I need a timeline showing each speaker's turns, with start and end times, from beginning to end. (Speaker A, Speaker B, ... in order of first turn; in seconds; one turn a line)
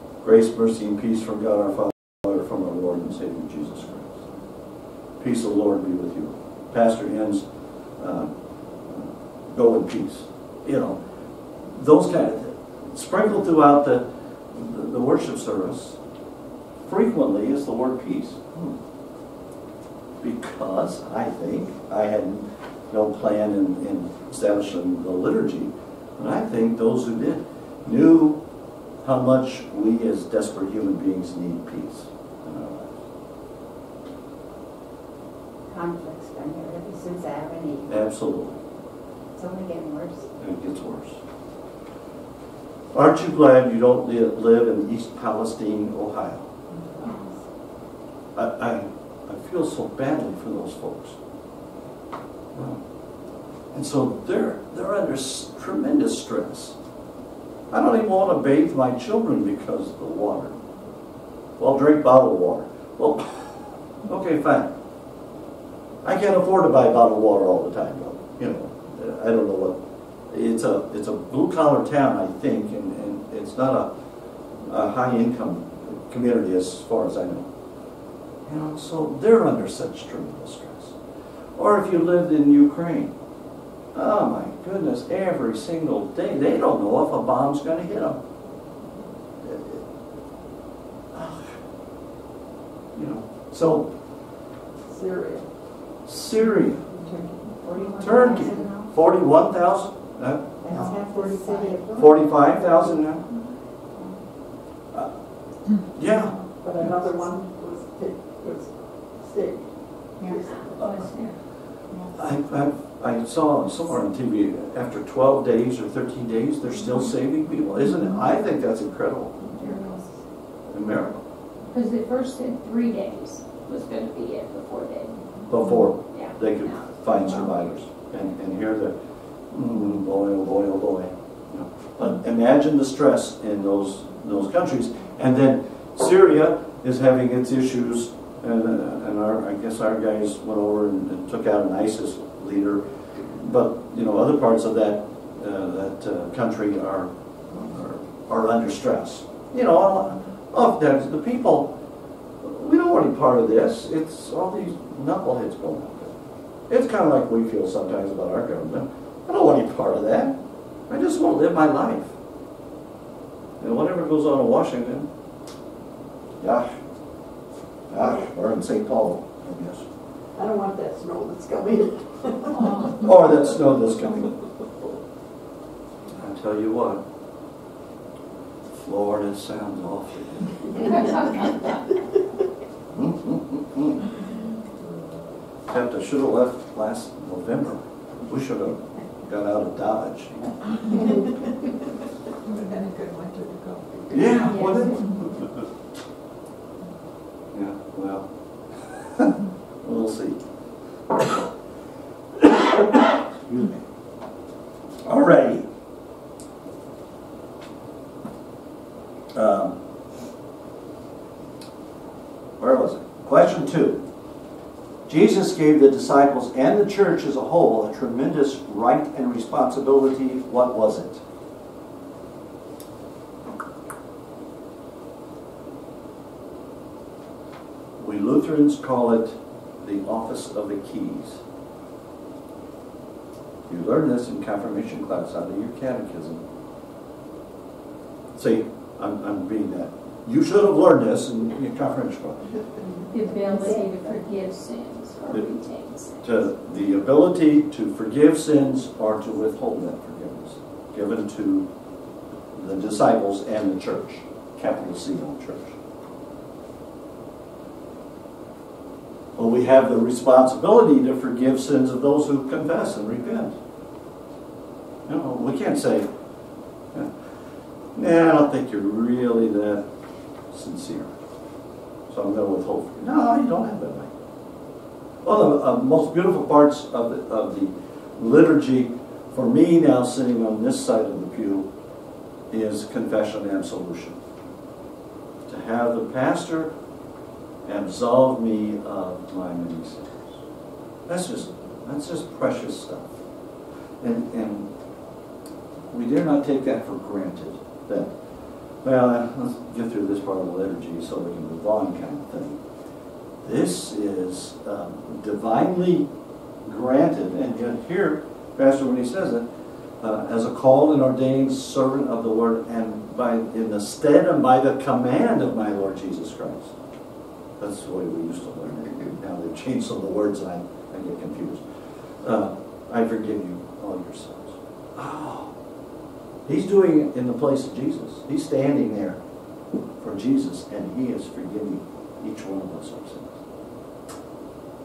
Speaker A: 0.2-4.2
Speaker A: 5.2-7.4
Speaker A: 8.0-8.3
Speaker A: 8.9-11.0
Speaker A: 11.7-16.0
Speaker A: 16.9-18.8
Speaker A: 20.2-28.4
Speaker A: 29.0-32.9
Speaker B: 35.7-38.0
Speaker A: 37.9-38.6
Speaker B: 39.4-40.3
Speaker A: 40.4-41.2
Speaker A: 42.9-46.5
Speaker B: 47.0-47.3
Speaker A: 48.4-51.1
Speaker A: 52.5-52.8
Speaker A: 53.7-56.8
Speaker A: 57.7-60.5
Speaker A: 61.6-63.4
Speaker A: 64.1-64.7
Speaker A: 66.0-69.8
Speaker A: 70.3-73.9
Speaker A: 74.7-77.5
Speaker A: 78.5-80.9
Speaker A: 81.5-83.1
Speaker A: 83.9-88.2
Speaker A: 89.4-89.8
Speaker A: 91.1-91.5
Speaker A: 92.9-93.9
Speaker C: 94.9-95.5
Speaker A: 96.0-96.8
Speaker B: 97.0-98.9
Speaker A: 98.0-100.9
Speaker B: 100.6-102.9
Speaker D: 100.7-102.2
Speaker A: 102.0-103.2
Speaker B: 103.9-104.2
Speaker A: 105.9-106.4
Speaker C: 106.6-111.0
Speaker E: 110.5-111.3
Speaker A: 112.1-119.4
Speaker A: 120.7-121.2
Speaker E: 121.7-125.2
Speaker A: 125.5-128.9
Speaker E: 126.1-126.7
Speaker A: 129.5-151.7
Speaker A: 152.4-156.1
Speaker A: 156.7-160.3
Speaker A: 160.9-162.1
Speaker A: 163.6-165.1
Speaker A: 166.4-166.7
Speaker A: 167.9-169.8
Speaker C: 170.3-172.9
Speaker E: 172.6-172.9
Speaker A: 173.0-174.3
Speaker A: 176.1-177.0
Speaker A: 178.8-180.7
Speaker A: 182.9-184.0
Speaker A: 185.7-190.4
Speaker D: 192.4-194.7
Speaker A: 194.1-195.5
Speaker E: 194.4-195.1
Speaker A: 197.5-198.3
Speaker A: 198.9-200.4
Speaker A: 201.1-201.5
Speaker A: 202.3-203.8
Speaker A: 205.1-205.7
Speaker A: 209.3-209.8
Speaker A: 212.6-214.0
Speaker A: 215.1-221.2
Speaker A: 228.0-231.4
Speaker A: 233.7-236.4
Speaker A: 238.3-242.4
Speaker E: 243.1-246.2
Speaker B: 243.5-243.9
Speaker A: 246.2-251.7
Speaker A: 252.5-255.7
Speaker A: 259.4-263.6
Speaker A: 265.1-266.1
Speaker A: 267.9-269.8
Speaker A: 270.5-271.1
Speaker A: 272.1-274.1
Speaker A: 275.2-281.7
Speaker A: 282.5-284.2
Speaker A: 285.5-286.7
Speaker A: 287.6-290.4
Speaker A: 291.1-293.1
Speaker A: 294.0-294.7
Speaker A: 295.9-298.1
Speaker A: 298.8-302.6
Speaker A: 303.4-306.1
Speaker A: 306.6-309.4
Speaker A: 310.0-316.7
Speaker A: 317.6-321.6
Speaker A: 322.2-325.5
Speaker A: 326.4-329.2
Speaker A: 330.0-333.4